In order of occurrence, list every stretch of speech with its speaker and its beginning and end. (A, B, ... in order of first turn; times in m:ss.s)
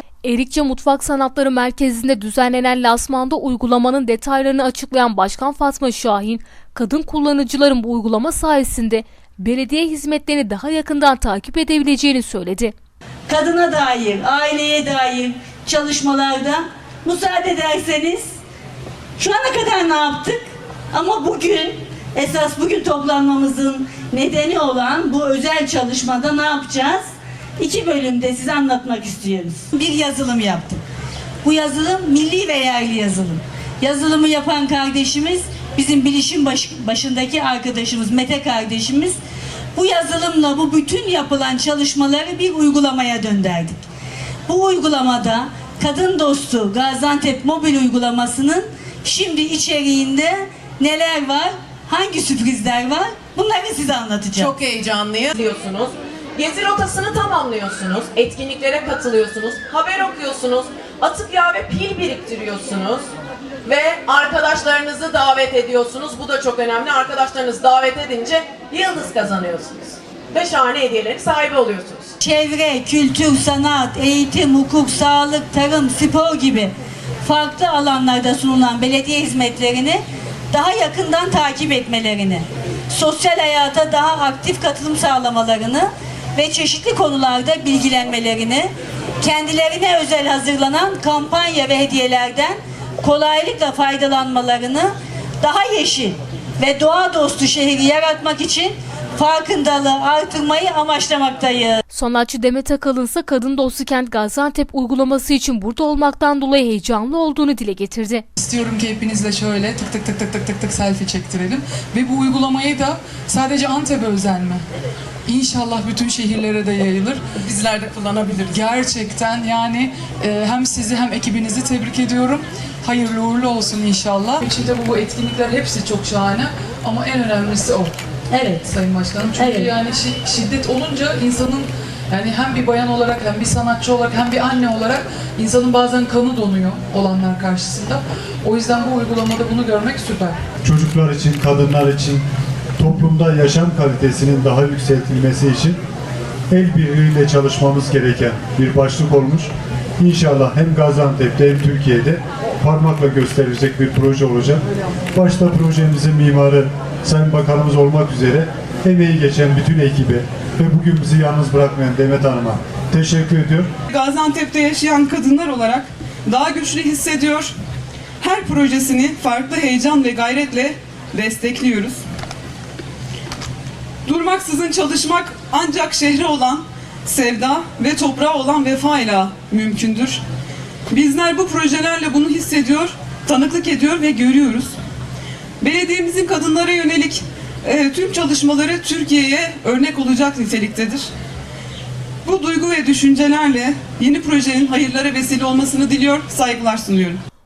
0:00.2-0:12.7 A
0:13.3-0:18.3 B
0:19.2-0:20.4 B
0:20.9-0:27.0 B
0:27.6-0:30.8 B
0:31.4-0:39.2 B
0:39.8-0:43.8 B
0:44.5-0:54.5 B
0:54.3-1:03.1 C
1:03.6-1:12.1 C
1:12.2-1:16.7 B
1:17.2-1:41.8 B
1:41.9-1:48.2 A
1:48.4-1:54.6 D
1:55.3-1:57.2 D
1:57.4-1:58.7 C
1:58.5-2:07.9 D
2:08.3-2:08.7 B
2:08.6-2:20.4 D
2:09.4-2:09.7 B
2:20.6-2:22.2 E
2:22.8-2:25.8 E
2:26.5-2:43.7 E
2:43.9-2:47.5 F
2:48.2-2:52.0 F
2:54.1-3:00.2 F
3:00.9-3:04.8 F
3:05.6-3:11.1 F
3:12.2-3:17.2 F